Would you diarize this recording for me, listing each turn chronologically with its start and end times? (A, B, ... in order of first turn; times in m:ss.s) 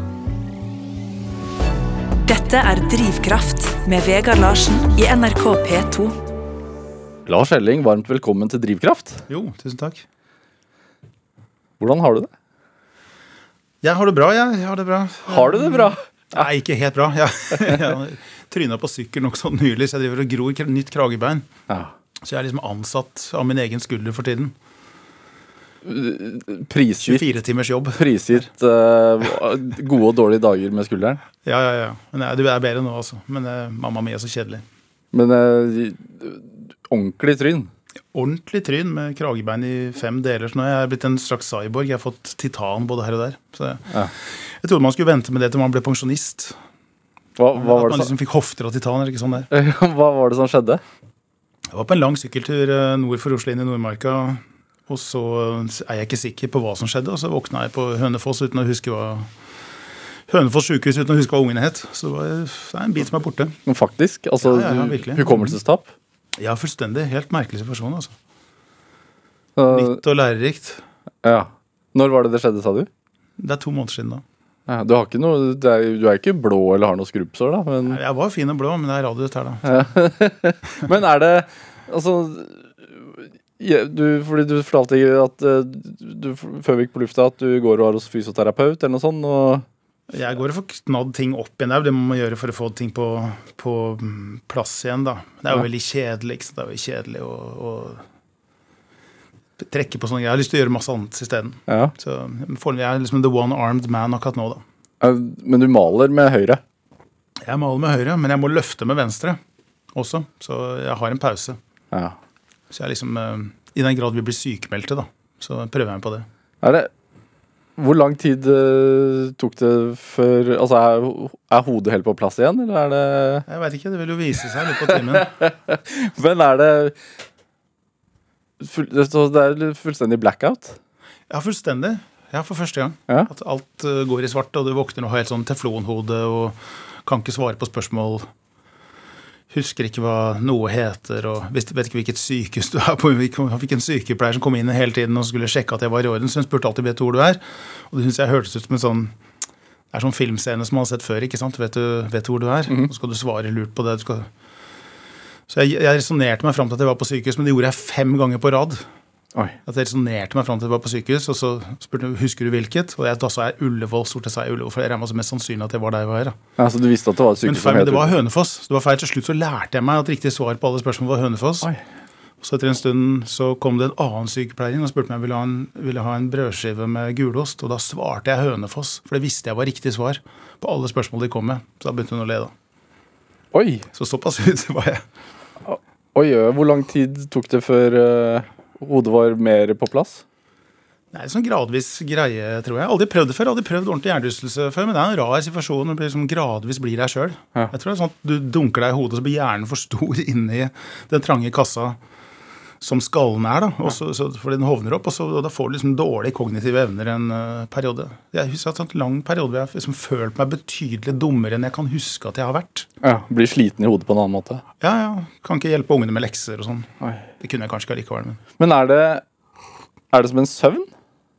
0:02.2-0:06.1 A
0:07.2-0:09.2 B
0:09.3-0:10.0 C
0:11.8-0:12.3 B
0:13.8-0:21.5 C
0:15.3-0:16.0 B
0:21.7-0:21.9 B
0:22.2-0:24.5 C
0:25.8-0:27.2 B
0:27.0-0:28.4 C
0:28.0-0:31.2 B
0:31.4-0:34.6 C
0:35.1-0:37.7 B
0:38.1-0:46.6 C
0:47.4-0:48.1 B
0:47.5-0:49.5 C
0:49.5-0:50.8 B
0:51.7-0:59.3 C
1:00.3-1:03.6 C
1:03.6-1:05.9 B
1:04.4-1:05.6 C
1:06.4-1:08.1 C
1:09.6-1:10.0 B
1:09.7-1:10.8 C
1:11.2-1:12.9 B
1:13.4-1:14.2 C
1:14.7-1:18.0 B
1:17.8-1:19.6 C
1:19.6-1:29.6 B
1:30.1-1:38.0 C
1:39.6-1:44.6 C
1:41.7-1:41.9 B
1:45.0-1:46.6 B
1:47.4-1:49.4 C
1:49.9-1:51.6 C
1:51.9-1:52.2 B
1:52.7-1:56.3 C
1:56.6-1:56.9 B
1:57.8-2:03.4 B
2:03.5-2:05.3 C
2:04.7-2:06.9 B
2:08.6-2:10.8 B
2:11.3-2:18.3 C
2:19.5-2:29.1 C
2:29.9-2:34.3 C
2:35.5-2:38.8 C
2:39.6-2:46.4 C
2:46.6-2:48.2 B
2:47.4-2:51.7 C
2:52.4-3:02.5 C
3:03.5-3:03.8 B
3:03.9-3:05.0 C
3:05.6-3:10.2 B
3:11.1-3:22.0 C
3:22.8-3:32.9 C
3:33.0-3:34.6 B
3:34.8-3:38.4 C
3:37.0-3:37.3 B
3:38.6-3:39.2 B
3:40.1-3:40.9 B